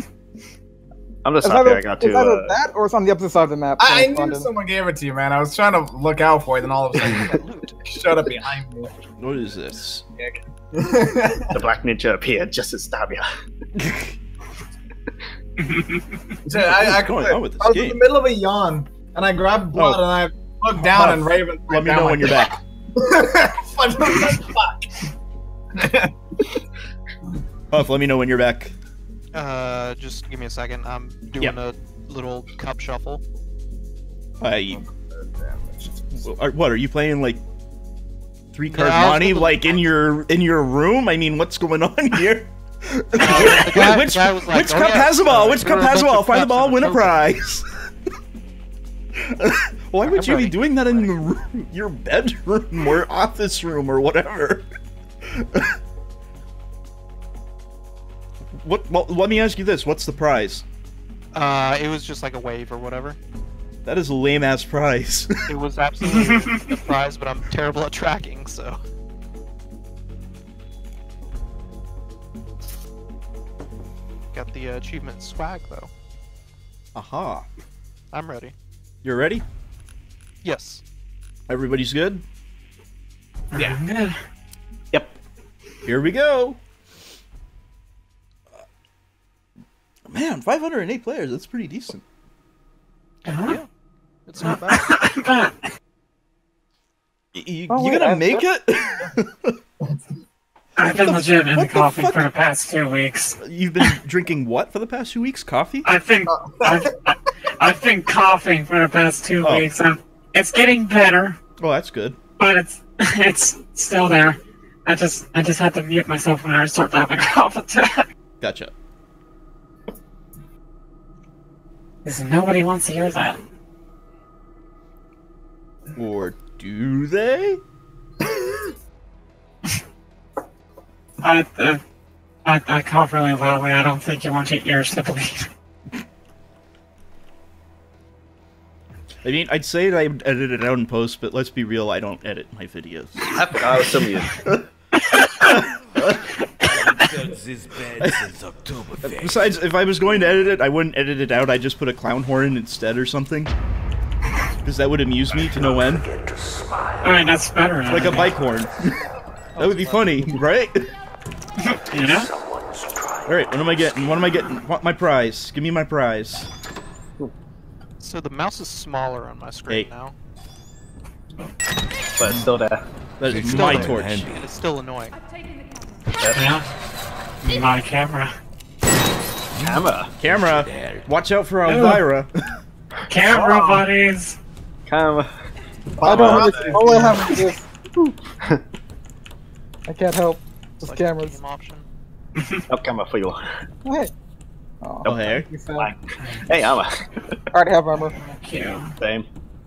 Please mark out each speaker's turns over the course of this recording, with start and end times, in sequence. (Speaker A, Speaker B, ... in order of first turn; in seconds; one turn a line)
Speaker A: 1.2-2.6
Speaker B: 1.4-4.5
Speaker C: 3.8-8.9
Speaker D: 7.2-7.8
Speaker E: 9.2-10.0
Speaker C: 10.2-11.6
Speaker A: 11.5-13.2
Speaker E: 13.8-14.2
Speaker F: 15.6-16.0
Speaker C: 16.4-25.0
Speaker E: 16.6-18.0
Speaker E: 19.8-20.0
Speaker E: 20.8-22.6
Speaker C: 25.8-26.6
Speaker E: 27.7-28.7
Speaker D: 29.3-33.2
Speaker E: 34.4-34.8
Speaker C: 34.7-36.2
Speaker E: 36.2-37.4
Speaker E: 38.5-47.7
Speaker D: 38.7-39.8
Speaker D: 43.2-47.2
Speaker E: 49.2-54.7
Speaker D: 50.0-50.5
Speaker E: 55.3-55.7
Speaker E: 58.5-60.6
Speaker D: 61.3-63.2
Speaker E: 63.8-65.3
Speaker D: 65.5-68.8
Speaker D: 74.3-75.9
Speaker E: 76.9-77.5
Speaker D: 78.1-78.5
Speaker E: 79.0-79.4
Speaker D: 80.4-80.8
Speaker E: 81.5-82.2
Speaker F: 83.5-84.1
Speaker E: 85.8-86.6
Speaker E: 90.1-92.0
Speaker F: 93.3-93.6
Speaker D: 94.3-95.0
Speaker F: 94.7-95.6
Speaker E: 97.3-99.5
Speaker B: 97.7-98.5
Speaker F: 100.8-103.4
Speaker E: 100.8-102.2
Speaker E: 103.4-105.9
Speaker F: 105.8-111.4
Speaker C: 106.3-106.9
Speaker E: 109.4-109.7
Speaker E: 111.6-112.2
Speaker F: 112.4-118.0
Speaker E: 118.4-118.7
Speaker F: 122.0-123.4
Speaker E: 125.9-127.6
Speaker F: 131.2-131.8
Speaker F: 132.4-135.5
Speaker E: 139.2-144.6
Speaker A: 143.3-144.3
Speaker F: 145.1-145.6
Speaker E: 145.4-146.2
Speaker G: 146.7-149.6
Speaker E: 148.0-148.2
Speaker E: 149.0-153.5
Speaker E: 154.6-156.1
Speaker F: 157.0-158.3
Speaker E: 157.8-158.9
Speaker D: 159.6-160.4
Speaker E: 159.6-160.9
Speaker F: 161.8-162.3
Speaker E: 163.2-166.5
Speaker D: 168.0-170.2
Speaker A: 172.2-172.8
Speaker E: 173.2-174.3
Speaker G: 173.2-174.4
Speaker D: 173.4-175.2
Speaker A: 176.2-176.5
Speaker F: 176.3-176.6
Speaker F: 177.4-178.3
Speaker G: 179.6-181.1
Speaker A: 179.6-180.1
Speaker E: 180.2-182.3
Speaker F: 181.7-182.0
Speaker F: 183.1-184.3
Speaker A: 183.3-183.8
Speaker A: 184.9-185.3
Speaker C: 186.0-187.3
Speaker B: 186.0-187.6
Speaker A: 186.1-186.9
Speaker A: 188.0-188.6
Speaker B: 189.9-191.4
Speaker D: 190.8-191.9
Speaker A: 192.7-193.4
Speaker B: 193.8-194.1
Speaker B: 194.8-195.9
Speaker E: 195.0-195.5
Speaker A: 195.0-197.4
Speaker B: 197.5-198.1
Speaker F: 198.2-198.9
Speaker A: 199.0-199.3